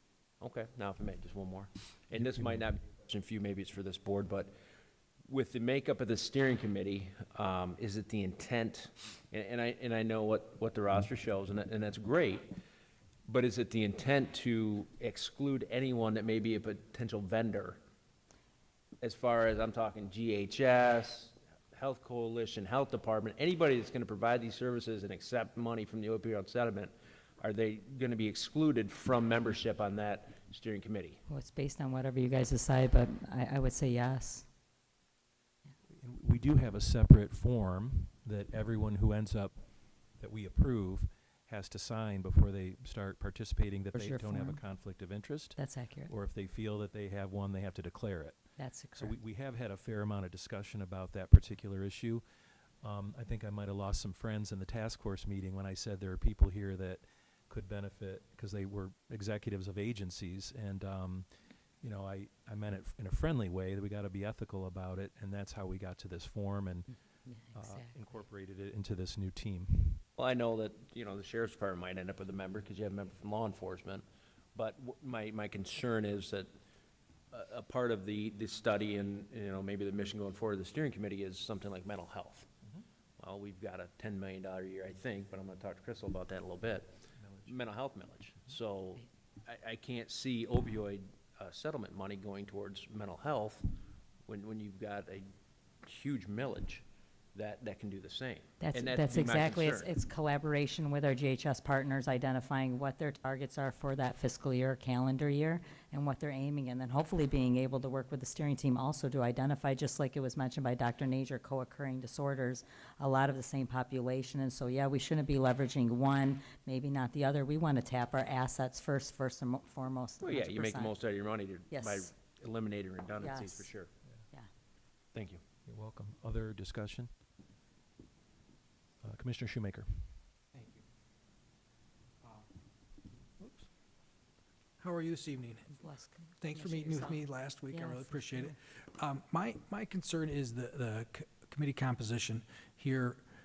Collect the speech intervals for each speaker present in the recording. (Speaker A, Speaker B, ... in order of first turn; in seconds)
Speaker A: 0.4-4.5, 5.3-12.5, 13.2-17.8, 19.0-31.2, 70.2-76.5, 77.3-82.5, 83.2-93.7, 94.3-95.2, 95.8-99.9, 120.2-123.9, 125.1-125.4
Speaker B: 2.2-2.5, 36.0-39.5, 40.1-48.4, 48.9-52.2, 52.8-61.3, 61.8-66.9, 67.5-70.0, 87.2-87.6, 125.7-127.1, 129.0-130.1
Speaker C: 31.3-34.5, 43.9-44.6, 45.5-46.1, 48.6-49.1, 66.9-68.0, 98.6-120.9, 121.7-122.1, 123.2-123.7, 135.7-138.6
Speaker D: 130.5-130.8, 133.4-133.7, 134.8-135.7, 136.4-143.2